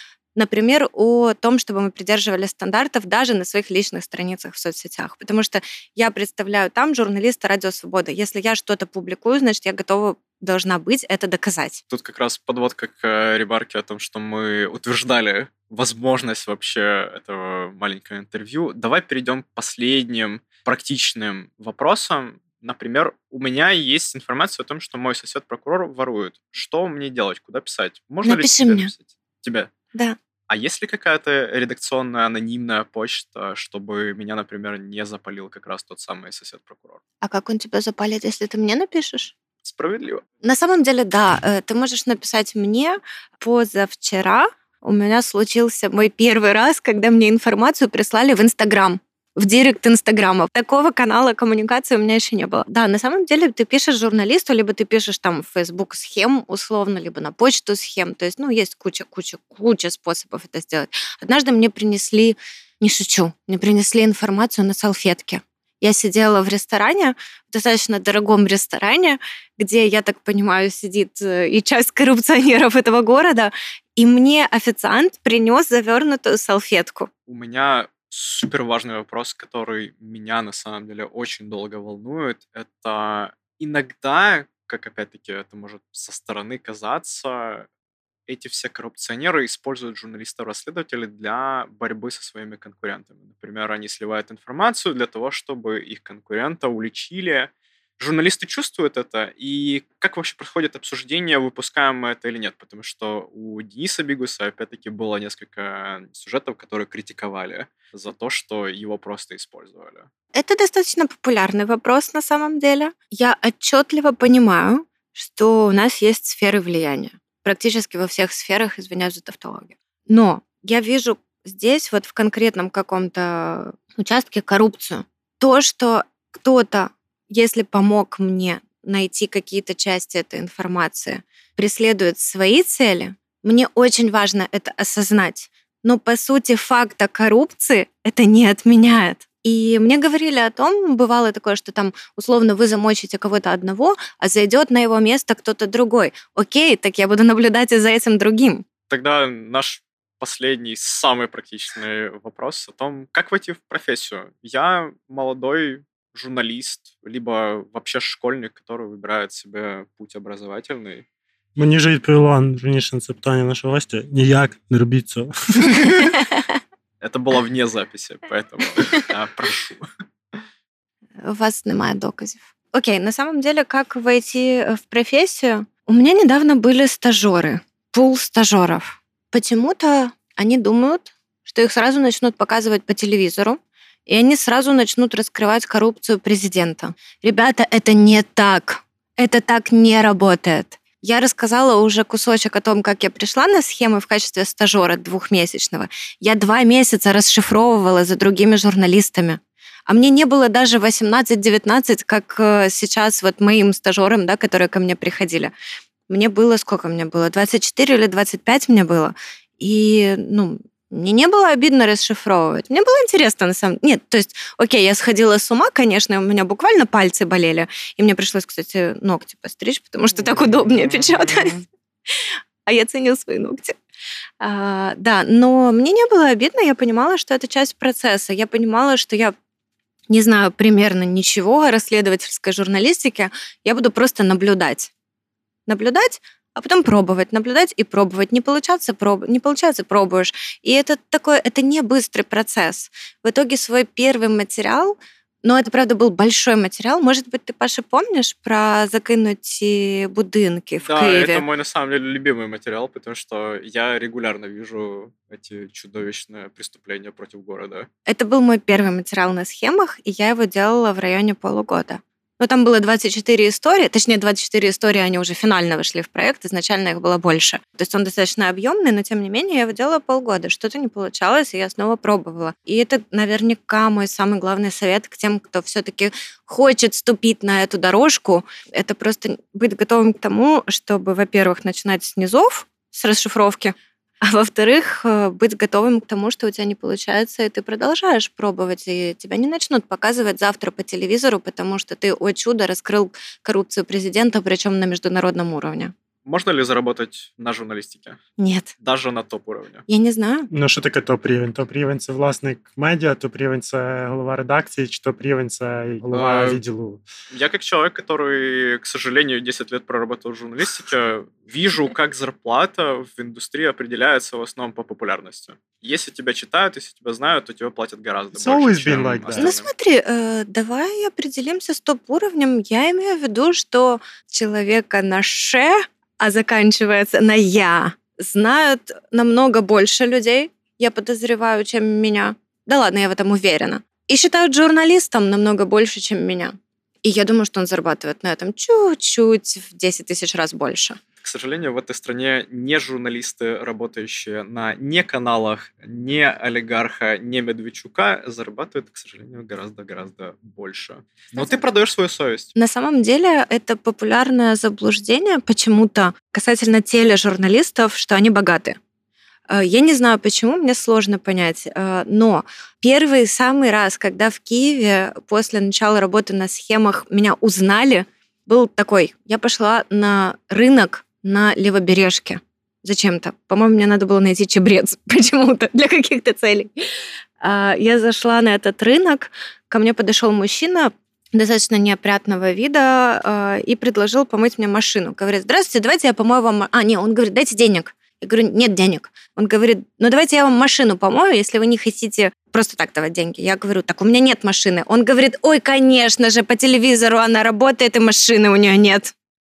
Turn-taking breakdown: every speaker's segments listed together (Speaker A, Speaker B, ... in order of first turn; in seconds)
Speaker A: 0.3-11.8, 28.2-28.9, 37.2-39.3, 40.4-77.1, 110.3-148.7, 166.2-166.4, 171.2-205.5, 206.1-223.8, 224.4-229.3, 230.1-234.9, 235.7-251.4, 258.1-295.9, 298.4-298.7, 299.9-300.5, 319.4-341.0, 351.4-351.6, 352.6-358.8, 359.5-376.7, 377.4-399.1
Speaker B: 11.9-29.7, 30.5-37.0, 39.6-40.2, 77.3-87.7, 88.3-110.1, 148.9-161.0, 167.0-169.9, 250.8-257.9, 296.2-298.2, 298.8-299.8, 306.1-306.6, 307.3-319.7, 341.2-352.5
Speaker C: 161.6-166.1, 300.5-307.0, 318.4-319.5